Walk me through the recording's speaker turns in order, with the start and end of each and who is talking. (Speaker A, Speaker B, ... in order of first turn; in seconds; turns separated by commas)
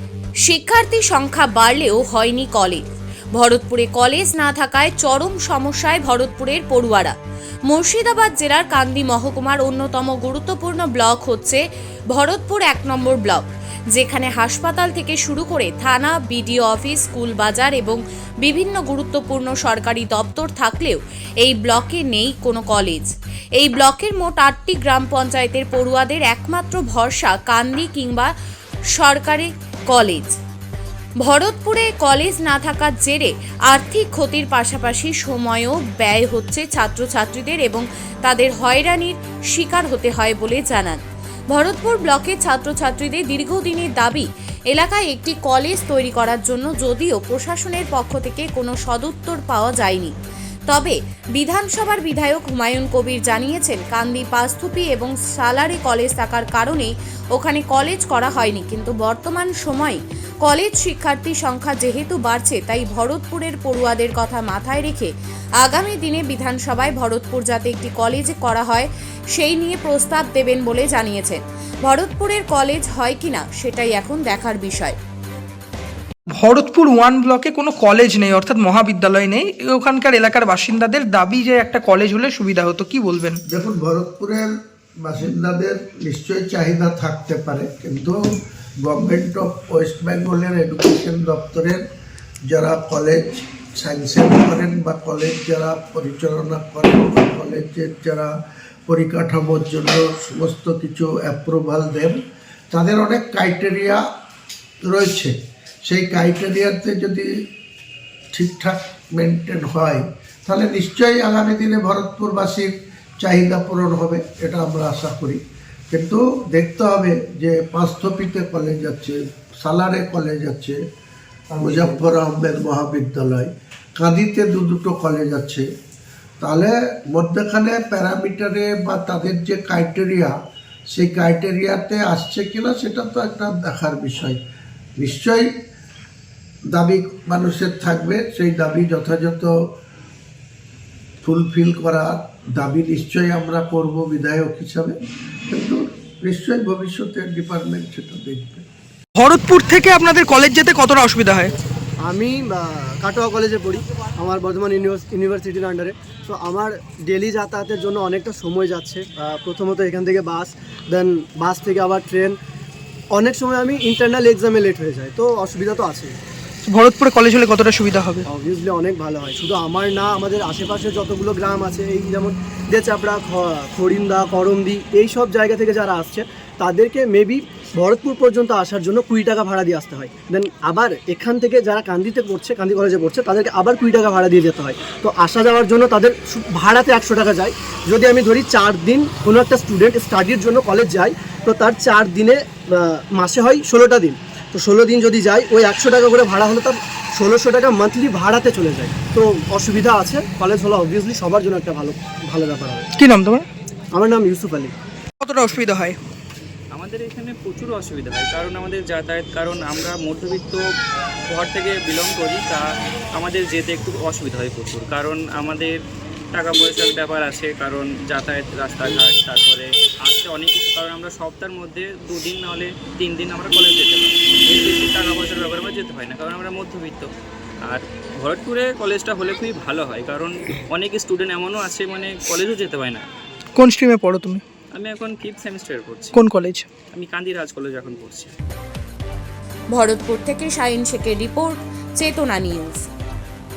Speaker A: 0.5-7.1, Speaker A: 7.7-11.6, Speaker A: 12.1-28.3, Speaker A: 28.9-30.4, Speaker A: 31.2-41.0, Speaker A: 41.5-50.1, Speaker A: 50.7-75.0, Speaker B: 76.3-83.4, Speaker C: 83.5-84.5, Speaker C: 85.0-88.2, Speaker C: 88.8-91.8, Speaker C: 92.5-98.3, Speaker C: 98.9-102.2, Speaker C: 102.7-104.0, Speaker C: 104.8-105.3, Speaker C: 105.8-107.3, Speaker C: 108.3-112.7, Speaker C: 113.2-120.8, Speaker D: 121.5-122.0, Speaker C: 121.6-125.7, Speaker C: 126.4-130.3, Speaker C: 130.9-134.4, Speaker C: 135.0-135.5, Speaker C: 136.7-139.5, Speaker C: 141.2-144.9, Speaker C: 145.5-148.6, Speaker B: 149.2-151.5, Speaker D: 152.0-162.4, Speaker D: 163.1-166.2, Speaker B: 166.6-168.3, Speaker D: 168.3-202.9, Speaker B: 203.0-203.4, Speaker D: 203.9-204.7, Speaker B: 205.2-206.0, Speaker E: 206.7-210.6, Speaker E: 211.3-215.8, Speaker E: 216.3-227.1, Speaker E: 227.6-233.1, Speaker B: 233.6-234.4, Speaker E: 234.7-236.2, Speaker B: 236.1-236.7, Speaker E: 236.9-238.3, Speaker A: 239.7-242.8